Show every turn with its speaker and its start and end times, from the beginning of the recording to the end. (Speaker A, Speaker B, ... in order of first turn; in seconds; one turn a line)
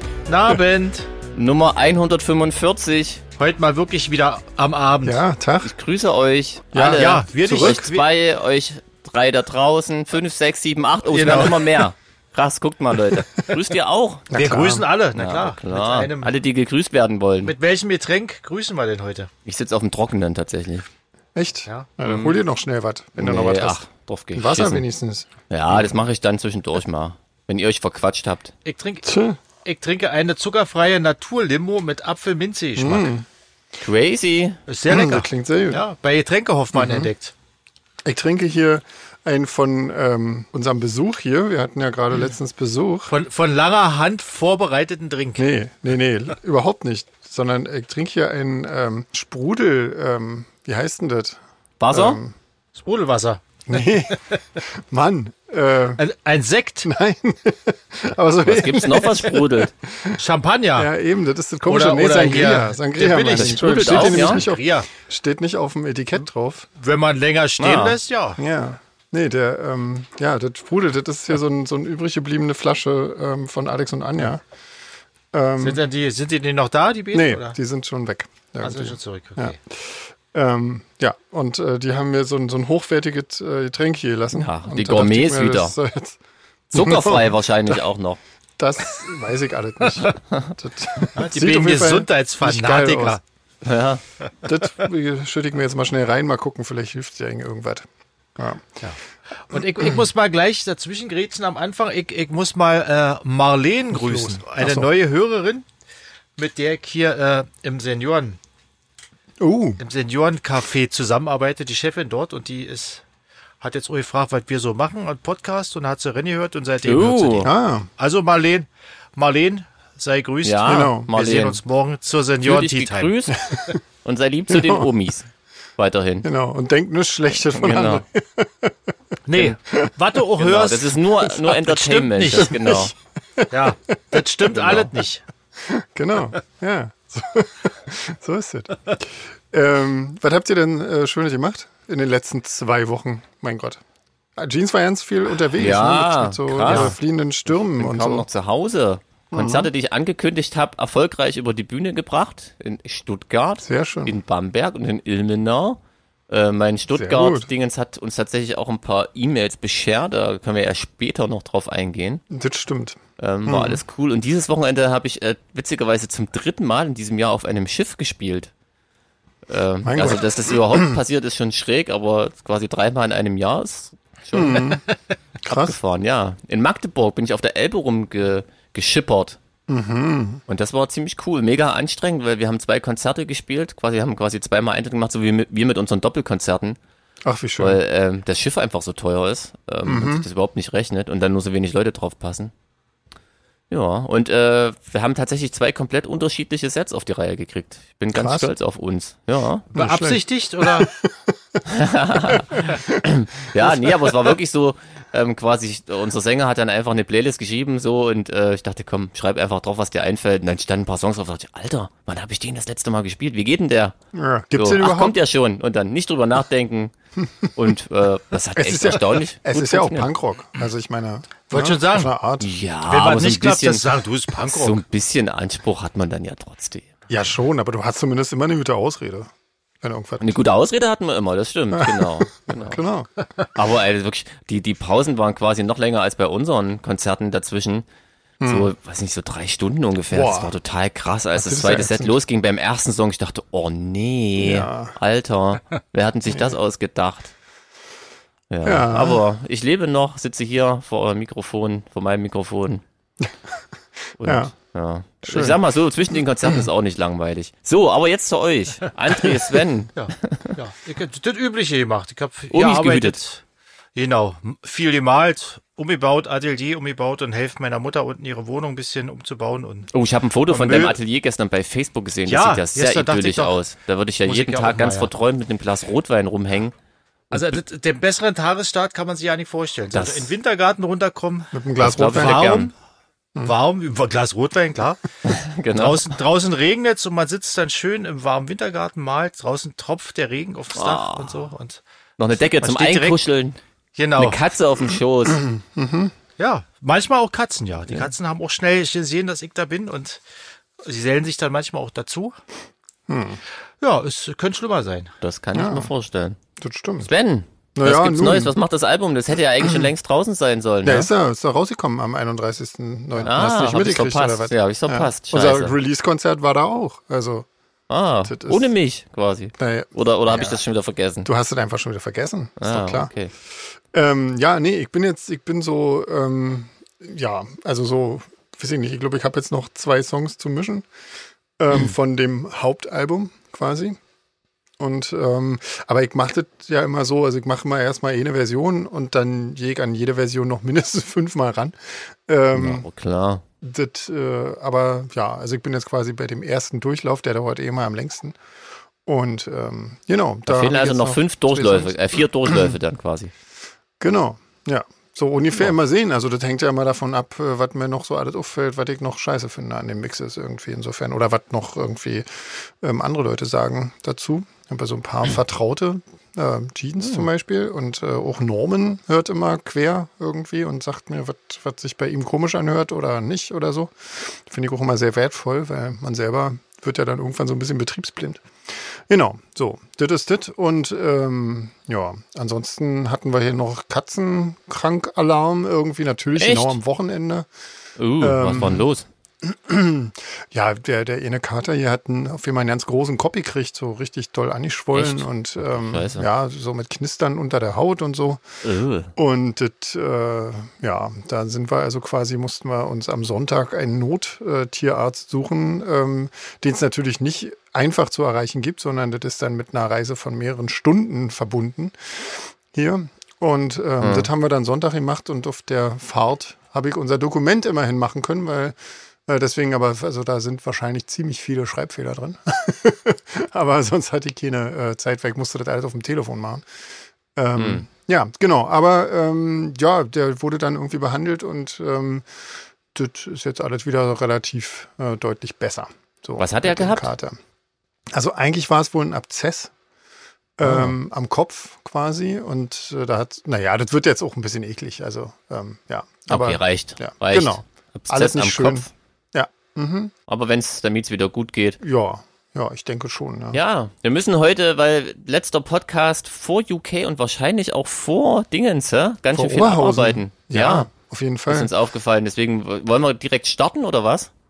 Speaker A: 0.3-1.1
Speaker B: 1.3-3.2
Speaker A: 3.4-5.2
Speaker C: 5.0-5.7
Speaker B: 5.6-14.6
Speaker C: 6.7-7.8
Speaker A: 6.8-8.1
Speaker A: 11.1-11.9
Speaker C: 14.3-14.8
Speaker A: 14.3-16.3
Speaker B: 15.1-17.5
Speaker A: 17.4-19.3
Speaker B: 19.5-20.9
Speaker C: 21.4-23.8
Speaker B: 22.0-22.4
Speaker B: 23.2-24.9
Speaker C: 24.4-25.9
Speaker B: 25.5-28.5
Speaker A: 28.6-29.1
Speaker C: 29.1-29.4
Speaker A: 29.6-33.1
Speaker C: 32.8-33.3
Speaker B: 33.8-34.6
Speaker A: 34.7-37.3
Speaker C: 34.9-35.8
Speaker C: 36.7-37.1
Speaker C: 38.0-43.1
Speaker A: 43.1-45.5
Speaker C: 45.4-52.3
Speaker B: 51.8-52.2
Speaker A: 52.8-53.6
Speaker C: 53.7-56.0
Speaker A: 54.3-54.6
Speaker A: 56.0-56.9
Speaker C: 56.8-60.2
Speaker B: 58.5-59.7
Speaker A: 60.2-60.9
Speaker C: 60.8-66.7
Speaker A: 61.7-64.9
Speaker B: 63.3-64.4
Speaker A: 66.8-68.4
Speaker B: 67.6-68.0
Speaker C: 68.4-74.4
Speaker C: 75.3-75.8
Speaker A: 75.6-77.6
Speaker C: 77.1-86.2
Speaker A: 78.6-79.6
Speaker B: 84.3-85.8
Speaker B: 86.7-88.2
Speaker C: 86.7-87.8
Speaker C: 88.6-93.2
Speaker A: 91.2-93.2
Speaker B: 93.6-94.0
Speaker C: 94.4-97.9
Speaker C: 98.4-98.8
Speaker A: 99.5-105.7
Speaker C: 103.9-104.9
Speaker A: 106.4-108.4
Speaker C: 109.4-109.8
Speaker A: 109.8-113.0
Speaker A: 113.6-123.1
Speaker B: 116.8-117.5
Speaker C: 117.4-117.9
Speaker B: 120.4-121.6
Speaker C: 120.7-121.1
Speaker B: 122.4-126.3
Speaker C: 123.5-123.8
Speaker C: 124.5-124.9
Speaker C: 126.2-128.7
Speaker B: 127.5-128.0
Speaker A: 129.3-132.6
Speaker B: 130.4-132.9
Speaker C: 132.4-134.2
Speaker A: 133.5-135.2
Speaker B: 134.5-134.9
Speaker C: 135.6-143.8
Speaker C: 144.4-148.3
Speaker B: 145.6-146.9
Speaker A: 146.7-146.9
Speaker B: 147.5-162.2
Speaker C: 149.3-149.7
Speaker C: 153.6-154.2
Speaker C: 156.9-157.5
Speaker C: 162.3-163.8
Speaker B: 163.2-168.5
Speaker B: 169.5-174.8
Speaker C: 169.8-171.0
Speaker C: 174.3-174.8
Speaker C: 175.4-175.8
Speaker B: 175.5-179.4
Speaker C: 179.7-180.4
Speaker B: 180.5-186.8
Speaker C: 187.2-187.8
Speaker B: 187.6-192.5
Speaker C: 189.8-190.3
Speaker B: 193.7-199.7
Speaker C: 198.1-198.5
Speaker A: 199.7-200.9
Speaker C: 199.7-201.6
Speaker B: 201.7-213.9
Speaker C: 202.2-203.1
Speaker C: 203.6-204.2
Speaker C: 214.1-215.2
Speaker B: 214.6-216.9
Speaker B: 217.5-220.1
Speaker C: 218.6-222.5
Speaker A: 221.5-222.1
Speaker B: 222.4-223.8
Speaker A: 222.9-224.8
Speaker B: 224.4-226.9
Speaker C: 227.1-230.4
Speaker B: 230.2-232.8
Speaker C: 231.7-233.1
Speaker B: 233.6-237.9
Speaker C: 238.4-238.7
Speaker B: 238.4-247.3
Speaker C: 240.1-240.5
Speaker C: 241.4-242.2
Speaker C: 244.4-244.9
Speaker C: 246.3-246.6
Speaker B: 248.5-252.8
Speaker C: 248.6-249.2
Speaker B: 254.2-260.6
Speaker C: 254.2-254.5
Speaker C: 255.2-255.6
Speaker A: 260.0-263.4
Speaker B: 262.5-263.2
Speaker A: 263.9-269.9
Speaker B: 269.9-276.7
Speaker A: 270.5-271.0
Speaker A: 272.3-273.6
Speaker A: 274.3-275.1
Speaker B: 277.3-277.6
Speaker A: 277.3-282.7
Speaker B: 279.9-280.3
Speaker C: 281.5-282.6
Speaker B: 281.8-282.7
Speaker A: 283.4-285.2
Speaker B: 285.2-286.1
Speaker A: 285.7-291.8
Speaker B: 290.8-291.5
Speaker B: 292.2-293.6
Speaker A: 292.4-293.2
Speaker A: 294.0-294.4
Speaker B: 294.2-295.4
Speaker C: 295.3-296.1
Speaker A: 296.4-300.2
Speaker A: 300.8-302.4
Speaker C: 303.1-303.4
Speaker A: 303.8-305.1
Speaker B: 305.2-306.4
Speaker C: 305.5-305.9
Speaker C: 306.6-307.1
Speaker B: 307.0-311.1
Speaker C: 307.8-308.5
Speaker C: 310.8-317.5
Speaker B: 313.2-315.8
Speaker B: 317.9-321.3
Speaker C: 318.2-318.7
Speaker C: 319.6-320.6
Speaker C: 321.2-323.1
Speaker B: 322.6-323.3
Speaker C: 323.9-330.9
Speaker C: 331.6-334.0
Speaker C: 334.8-342.9
Speaker B: 342.5-343.4
Speaker C: 343.6-348.4
Speaker C: 349.1-352.8
Speaker B: 350.5-353.3
Speaker C: 354.0-387.5
Speaker B: 386.4-386.8
Speaker B: 388.0-389.1
Speaker C: 388.2-388.9
Speaker C: 389.4-398.4
Speaker B: 394.9-396.3
Speaker B: 398.6-399.1
Speaker C: 399.2-418.8
Speaker B: 414.0-414.3
Speaker C: 419.3-426.7
Speaker C: 427.4-437.4
Speaker B: 427.6-427.9
Speaker B: 436.4-437.1
Speaker C: 438.1-439.7
Speaker C: 440.6-450.1
Speaker B: 440.6-440.9
Speaker B: 446.3-448.9
Speaker B: 450.3-451.8
Speaker C: 451.8-453.6
Speaker B: 453.5-460.9
Speaker C: 459.3-461.7
Speaker B: 461.5-464.3